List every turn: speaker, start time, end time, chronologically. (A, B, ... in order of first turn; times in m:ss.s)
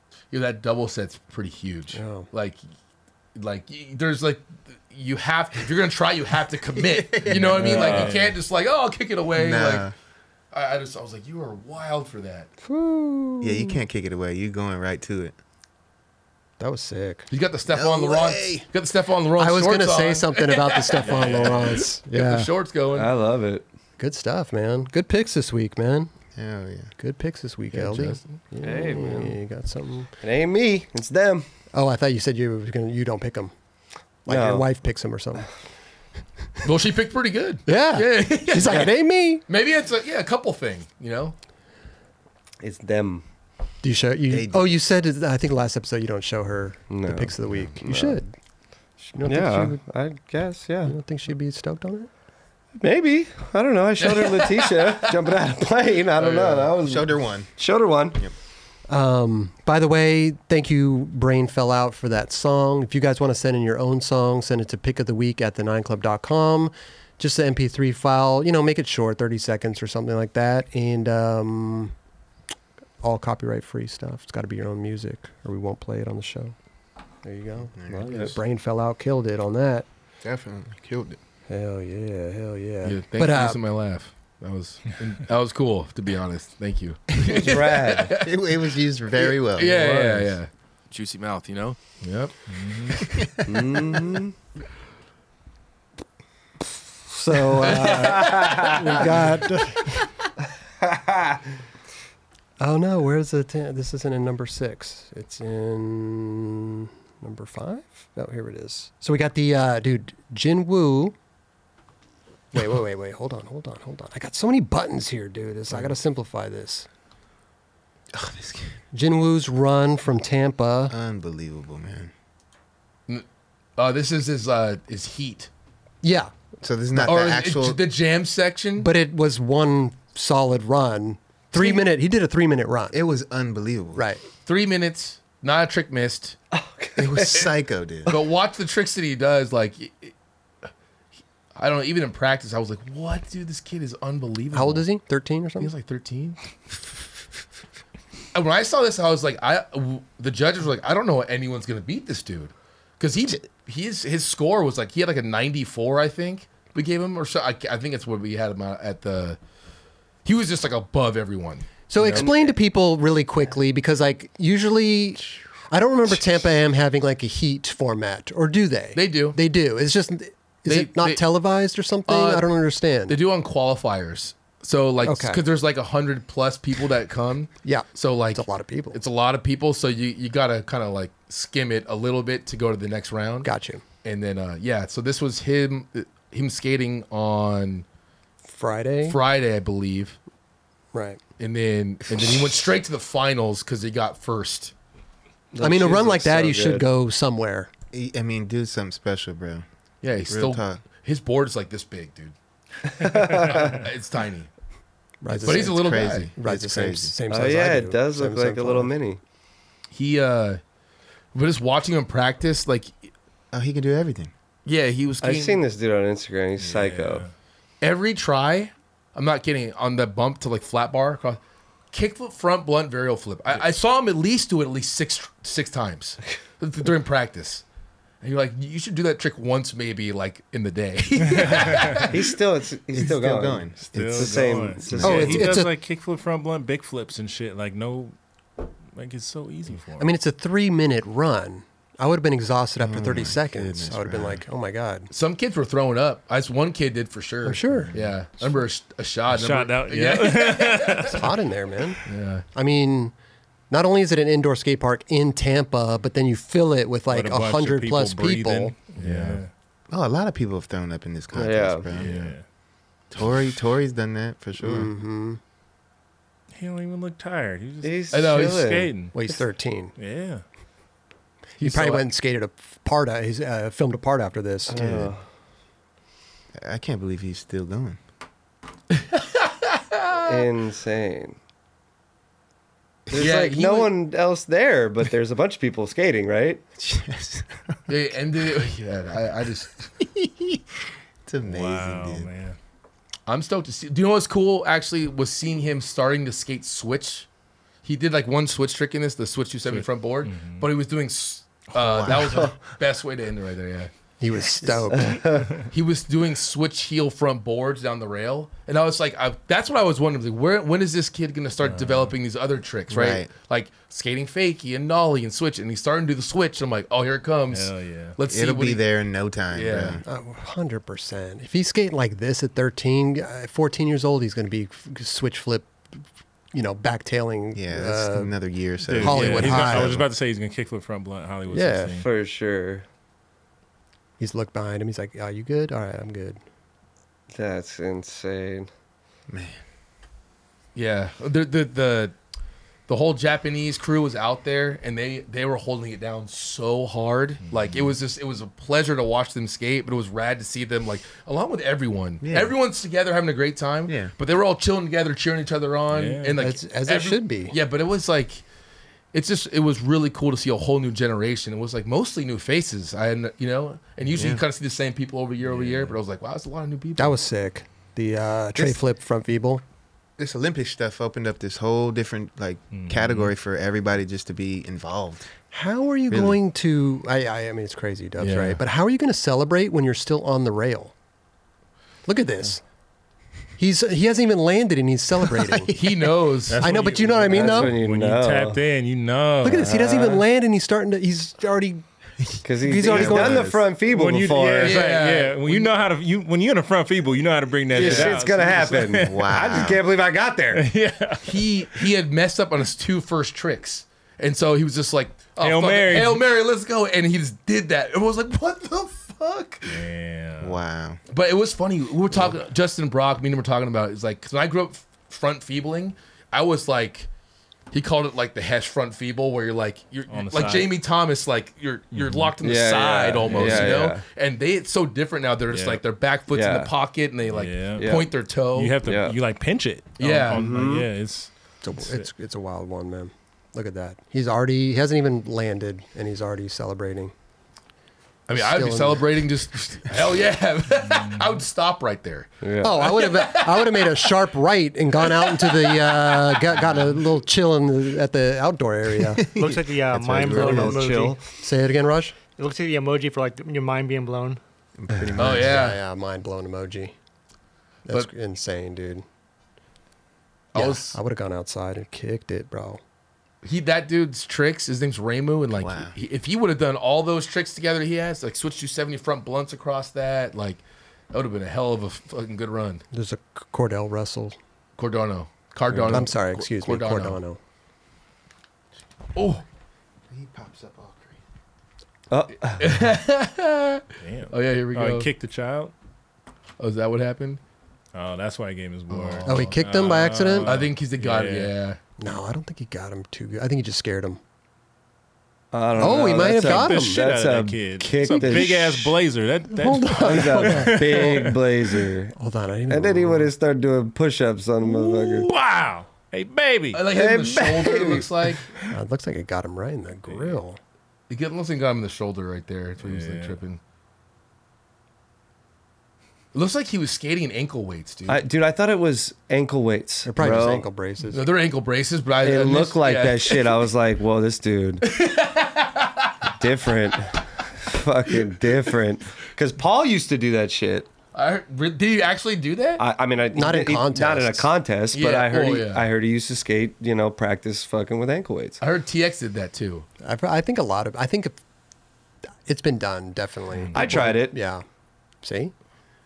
0:00.3-0:02.6 A
0:01.9-0:02.3 B
0:03.3-0:09.9 A
0:06.8-0:07.7 C
0:07.5-0:08.3 D
0:07.8-0:08.1 E
0:09.3-0:09.9 C
0:10.5-0:12.5 A
0:12.6-0:13.6 B
0:13.4-0:15.3 C
0:16.6-0:17.3 B
0:17.3-0:23.1 A
0:17.6-0:18.6 C
0:19.4-0:22.5 B
0:22.9-0:23.6 E
0:24.0-0:26.1 B
0:26.4-0:26.9 C
0:27.0-0:30.1 B
0:27.7-0:28.3 A
0:28.6-0:29.4 E
0:30.2-0:31.5 E
0:31.7-0:33.5 B
0:34.2-0:35.5 B
0:34.3-0:34.7 E
0:36.6-0:38.9 A
0:37.6-0:39.4 B
0:39.5-0:41.3 A
0:42.6-0:43.2 E
0:43.8-0:48.3 B
0:44.3-0:44.7 C
0:46.9-0:48.2 E
0:49.1-0:49.8 B
0:49.2-0:50.9 E
0:50.8-0:52.1 B
0:52.8-0:58.2 E
0:54.0-0:55.3 A
0:56.2-0:56.7 A
0:56.8-0:57.5 C
0:58.9-1:11.9 B
1:13.0-1:16.5 B
1:17.2-1:19.8 B
1:17.8-1:18.4 C
1:18.0-1:18.3 E
1:20.2-1:21.2 C
1:21.5-1:23.6 B
1:22.8-1:28.3 A
1:27.2-1:27.5 C
1:27.2-1:28.2 E
1:28.1-1:29.8 C
1:29.2-1:33.0 A
1:29.7-1:30.3 E
1:32.5-1:33.0 D
1:33.4-1:34.3 E
1:37.1-1:40.0 B
1:37.7-1:39.0 E
1:37.9-1:38.4 A
1:40.8-1:41.4 E
1:42.6-1:51.1 B
1:52.5-1:56.9 B
1:58.1-1:58.7 C
1:58.9-2:00.9 B
2:00.9-2:02.1 C
2:03.8-2:05.5 A
2:06.0-2:06.3 B
2:06.6-2:07.8 C
2:07.0-2:08.9 A
2:08.8-2:13.0 B
2:12.9-2:14.0 C
2:13.9-2:14.2 B
2:14.4-2:16.4 A
2:16.5-2:17.5 E
2:17.0-2:18.2 C
2:18.1-2:20.1 A
2:21.6-2:24.8 A
2:24.5-2:25.7 B
2:25.6-2:26.4 A
2:28.3-2:39.4 A
2:40.2-2:42.3 A
2:41.9-2:53.2 B
2:48.9-2:49.4 A
2:50.7-2:51.2 A
2:52.1-2:52.5 A
2:53.1-3:03.5 A
2:55.0-2:55.4 B
2:57.6-2:59.0 B
3:03.4-3:03.8 B
3:04.0-3:07.8 A
3:08.4-3:09.2 B
3:09.0-3:10.2 A
3:10.9-3:11.2 B
3:11.4-3:14.7 A
3:12.2-3:12.4 C
3:15.5-3:16.9 E
3:15.6-3:17.7 B
3:17.9-3:19.6 C
3:20.0-3:22.3 A
3:20.3-3:20.8 C
3:23.0-3:23.7 E
3:23.0-3:23.8 D
3:23.2-3:24.5 A
3:25.2-3:28.9 B
3:25.3-3:27.1 C
3:25.4-3:26.3 A
3:27.3-3:29.2 E
3:29.9-3:30.6 A
3:31.3-3:32.9 A
3:33.5-3:34.3 C
3:34.6-3:35.6 A
3:35.2-3:37.2 E
3:36.6-3:37.3 D
3:37.8-3:41.4 A
3:41.9-3:47.6 A
3:48.2-3:52.2 A
3:51.2-3:52.1 D
3:52.1-3:55.5 E
3:52.9-3:55.4 C
3:53.8-3:58.2 D
3:55.0-3:55.7 B
3:58.9-4:00.1 D
4:00.0-4:05.1 B
4:02.8-4:04.4 C
4:05.1-4:11.2 A
4:07.4-4:07.9 B
4:09.3-4:11.3 D
4:11.1-4:12.0 B
4:12.0-4:12.4 A
4:12.5-4:13.1 B
4:13.7-4:18.7 B
4:17.1-4:19.5 D
4:19.0-4:19.4 A
4:19.9-4:22.1 C
4:21.3-4:21.9 E
4:21.9-4:22.4 D
4:21.9-4:22.3 A
4:23.1-4:24.9 C
4:24.6-4:25.4 B
4:26.5-4:29.2 D
4:27.8-4:28.9 E
4:28.1-4:28.7 A
4:29.1-4:29.9 B
4:30.0-4:30.4 D
4:31.6-4:32.0 A
4:31.6-4:34.8 B
4:34.7-4:35.2 E
4:34.7-4:35.1 C
4:36.5-4:38.0 C
4:39.0-4:40.3 A
4:40.2-4:41.4 E
4:43.1-4:46.6 E
4:43.1-4:43.9 A
4:46.8-4:47.8 C
4:47.9-4:49.9 A
4:50.0-4:50.6 C
4:51.2-4:52.3 C
4:51.4-4:52.6 D
4:53.3-4:57.2 A
4:57.8-5:03.9 A
5:00.2-5:00.7 D
5:01.7-5:02.5 C
5:04.2-5:05.2 B
5:04.9-5:05.6 E
5:05.6-5:18.8 A
5:11.6-5:12.1 D
5:12.9-5:13.3 C
5:17.5-5:18.2 D
5:18.3-5:20.0 C
5:19.5-5:20.0 A
5:20.0-5:25.8 B
5:26.5-5:28.3 B
5:27.5-5:30.0 C
5:28.9-5:32.1 D
5:29.0-5:30.0 B
5:31.5-5:32.0 B
5:32.0-5:32.8 E
5:34.2-5:36.4 B
5:37.3-5:38.7 E
5:39.3-5:39.6 C
5:40.7-5:42.1 A
5:42.9-5:58.4 A
5:47.5-5:48.0 D
5:52.2-5:52.5 C
5:53.9-5:54.1 C
5:55.9-5:56.4 D
5:56.3-5:57.5 B
5:59.1-6:07.2 A
6:04.1-6:04.4 C
6:05.4-6:06.0 D
6:07.0-6:09.6 B
6:10.2-6:15.3 C
6:12.7-6:13.3 D
6:15.5-6:20.9 B
6:16.1-6:16.4 C
6:18.2-6:18.6 A
6:22.0-6:22.6 B
6:23.6-6:25.7 B
6:25.3-6:26.0 C
6:25.7-6:26.6 A
6:26.5-6:30.2 D
6:26.6-6:27.7 B
6:27.3-6:28.6 E
6:29.4-6:31.8 B
6:32.4-6:33.6 B
6:32.4-6:34.8 E
6:32.8-6:33.6 C
6:33.8-6:39.7 D
6:34.6-6:35.7 A
6:37.7-6:40.6 E
6:37.8-6:38.2 A
6:39.0-6:39.8 C
6:40.5-6:41.9 D
6:41.2-6:49.8 A
6:45.4-6:46.2 D
6:49.7-6:50.6 D
6:50.4-6:51.0 C
6:51.1-6:57.1 A
6:57.7-7:08.7 A
7:00.1-7:00.7 D
7:01.9-7:02.3 D
7:02.4-7:04.0 E
7:03.2-7:03.8 D
7:05.5-7:05.8 D
7:06.3-7:06.7 E
7:07.3-7:07.9 D
7:07.8-7:08.1 E
7:08.5-7:12.1 D
7:08.8-7:09.2 E
7:10.0-7:10.5 A
7:10.3-7:10.9 E
7:11.6-7:17.1 B
7:18.3-7:24.0 A
7:18.3-7:19.1 B
7:20.9-7:21.2 D
7:22.4-7:22.8 E
7:22.6-7:29.3 B
7:25.1-7:26.7 A
7:29.2-7:30.9 C
7:29.3-7:31.2 F
7:30.2-7:31.2 E
7:30.4-7:30.7 B
7:31.2-7:32.2 B
7:32.4-7:34.4 F
7:34.8-7:35.7 C
7:35.2-7:35.8 A
7:35.2-7:36.9 B
7:37.9-7:39.0 B
7:40.5-7:41.0 A
7:40.5-7:42.8 B
7:43.4-7:50.6 A
7:45.5-7:45.9 C
7:51.1-7:52.8 A
7:52.9-7:54.4 B
7:54.8-7:57.2 A
7:55.7-7:56.1 E
7:55.9-7:57.4 B
7:59.2-7:59.4 A
8:00.1-8:01.2 C
8:02.1-8:02.8 E
8:02.6-8:05.1 A
8:04.0-8:05.7 D
8:06.6-8:07.4 A
8:07.9-8:11.5 D
8:08.9-8:09.5 A
8:09.2-8:10.6 B
8:10.4-8:11.8 A
8:12.0-8:14.2 B
8:15.5-8:18.8 E
8:15.8-8:17.0 B
8:15.8-8:21.5 D
8:18.1-8:18.9 B
8:19.5-8:21.2 B
8:20.0-8:22.1 E
8:22.2-8:23.3 B
8:22.7-8:25.3 E
8:24.6-8:26.8 D
8:26.7-8:28.5 A
8:26.9-8:28.1 E
8:28.7-8:30.6 B
8:30.1-8:30.4 D
8:31.1-8:33.6 A
8:32.8-8:33.4 D
8:36.3-8:38.2 A
8:38.1-8:40.7 E
8:40.0-8:41.2 B
8:41.1-8:43.6 A
8:42.2-8:44.9 E
8:44.8-8:46.3 A
8:46.4-8:50.9 E
8:51.1-8:52.8 A
8:52.8-8:58.6 E
8:53.3-8:54.5 B
8:54.9-8:55.8 A
8:58.6-8:59.9 A
9:00.0-9:01.4 B
9:02.4-9:04.6 B
9:03.7-9:04.4 E
9:05.2-9:05.5 B